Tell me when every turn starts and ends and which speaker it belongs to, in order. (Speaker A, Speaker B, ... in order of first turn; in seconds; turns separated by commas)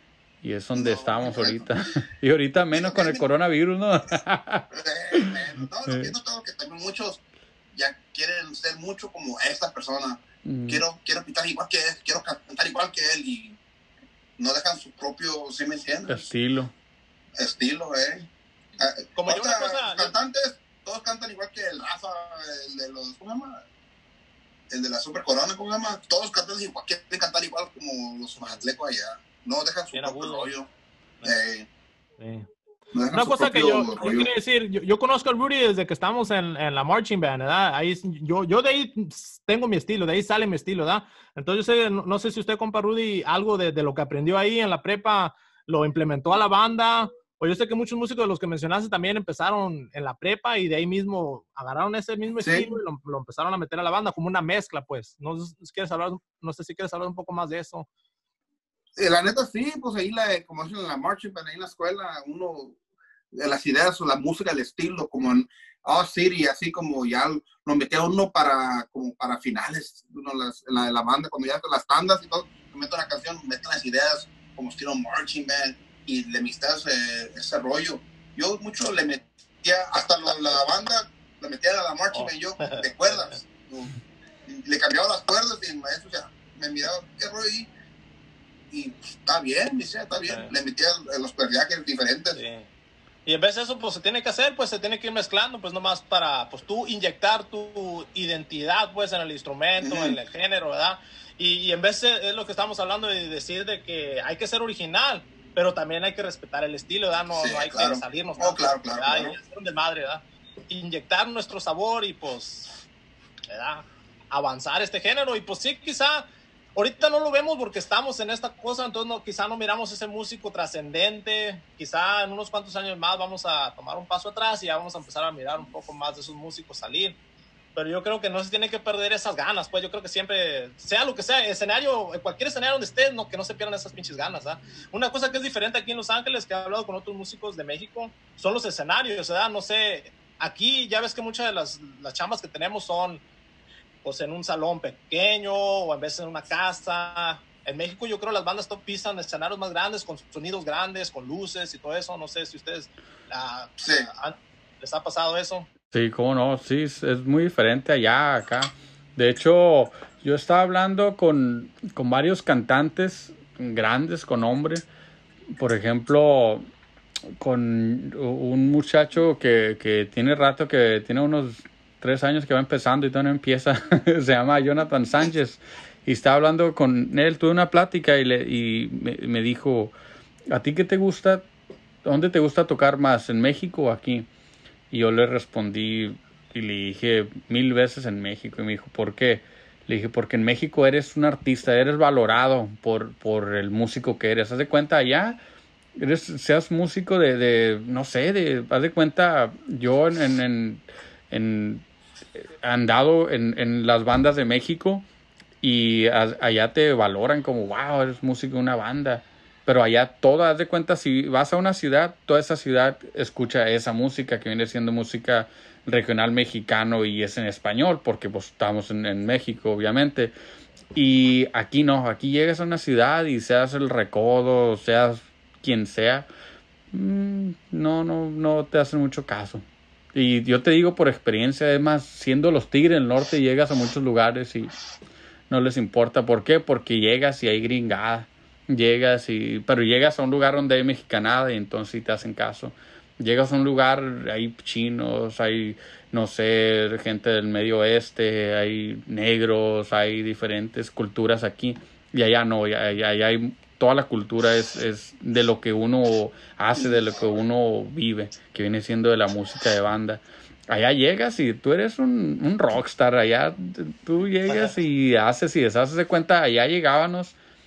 Speaker A: 0.4-6.1, Speaker B: 0.7-1.6, Speaker B: 2.7-3.3, Speaker B: 4.7-13.6, Speaker A: 10.4-10.8, Speaker B: 14.4-16.2, Speaker A: 16.1-16.7, Speaker B: 17.4-23.6, Speaker C: 19.2-20.1, Speaker B: 24.7-30.7, Speaker C: 28.4-28.7, Speaker C: 29.9-30.5, Speaker B: 31.2-31.7, Speaker C: 32.2-32.5, Speaker B: 32.9-34.3, Speaker C: 33.1-57.9, Speaker B: 52.4-52.8, Speaker B: 59.0-62.8, Speaker B: 63.3-83.9, Speaker C: 82.1-83.4, Speaker B: 84.5-87.7, Speaker B: 88.7-92.4, Speaker C: 90.3-90.5, Speaker C: 92.3-92.7, Speaker C: 93.3-112.8, Speaker B: 99.8-100.2, Speaker B: 107.3-109.4, Speaker C: 113.5-127.2, Speaker C: 127.8-143.2, Speaker C: 144.0-155.7, Speaker B: 153.8-154.1, Speaker A: 155.9-164.8, Speaker A: 165.6-166.7, Speaker A: 167.4-179.9, Speaker A: 180.5-181.5, Speaker A: 182.0-184.3, Speaker A: 184.9-195.4, Speaker A: 196.0-205.1, Speaker A: 205.6-220.3, Speaker A: 220.9-226.3, Speaker A: 226.9-234.8, Speaker A: 235.5-267.4, Speaker B: 256.8-257.0, Speaker B: 264.5-264.7